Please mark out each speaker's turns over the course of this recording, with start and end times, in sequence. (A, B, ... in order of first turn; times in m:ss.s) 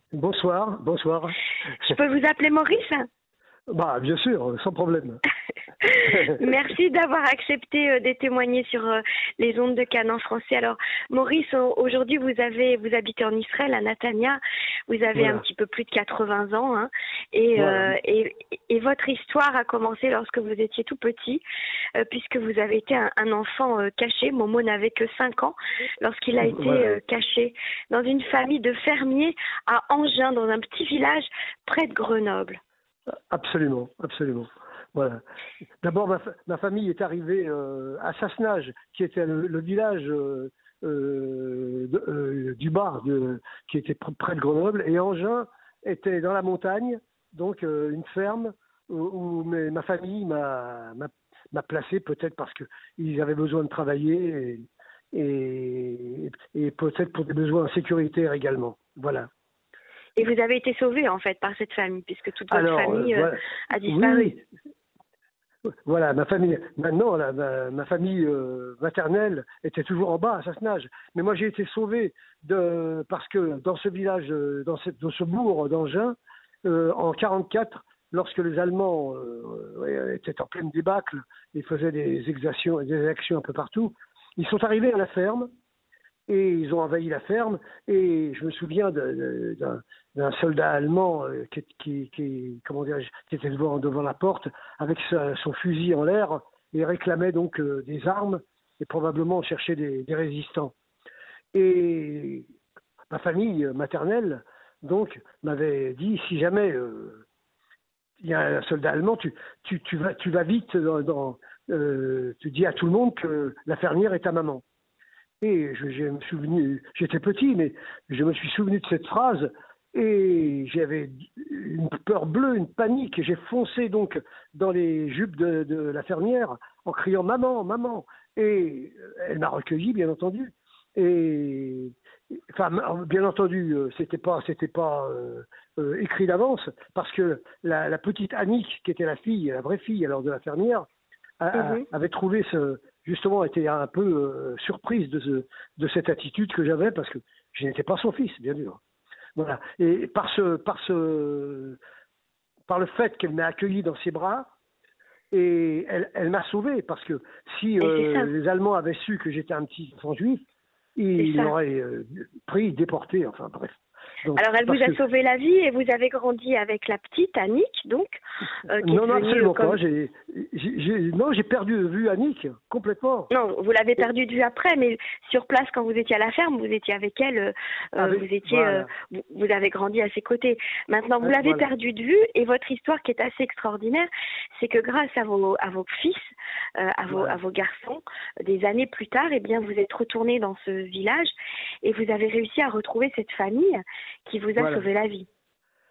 0:00.1-0:01.4 A
0:01.8-0:03.1 B
0:03.7-0:05.2 A
0:05.8-0:21.4 B
0:06.1-0:06.4 A
0:15.1-0:15.4 A
0:17.6-0:17.9 A
0:22.0-0:32.6 B
0:26.4-0:26.9 A
0:33.3-0:35.2 A
0:35.8-0:59.3 A
1:00.2-1:04.3 B
1:02.5-1:04.4 A
1:05.9-1:25.5 A
1:26.3-1:40.7 A
1:41.5-1:42.4 A
1:43.1-1:47.2 A
1:48.2-1:54.6 A
1:55.4-2:11.9 A
2:12.5-2:20.8 A
2:21.4-2:28.8 A
2:21.5-2:21.8 B
2:29.4-2:31.8 A
2:32.7-2:34.5 A
2:35.3-2:40.4 A
2:37.8-2:38.3 B
2:41.0-2:45.0 A
2:41.2-2:41.5 B
2:44.3-2:49.8 B
2:48.8-2:53.3 A
2:53.3-3:06.2 B
2:58.0-2:58.9 A
3:01.2-3:01.7 A
3:06.8-3:11.3 B
3:07.1-3:07.4 A
3:11.8-3:15.3 B
3:14.6-3:14.8 A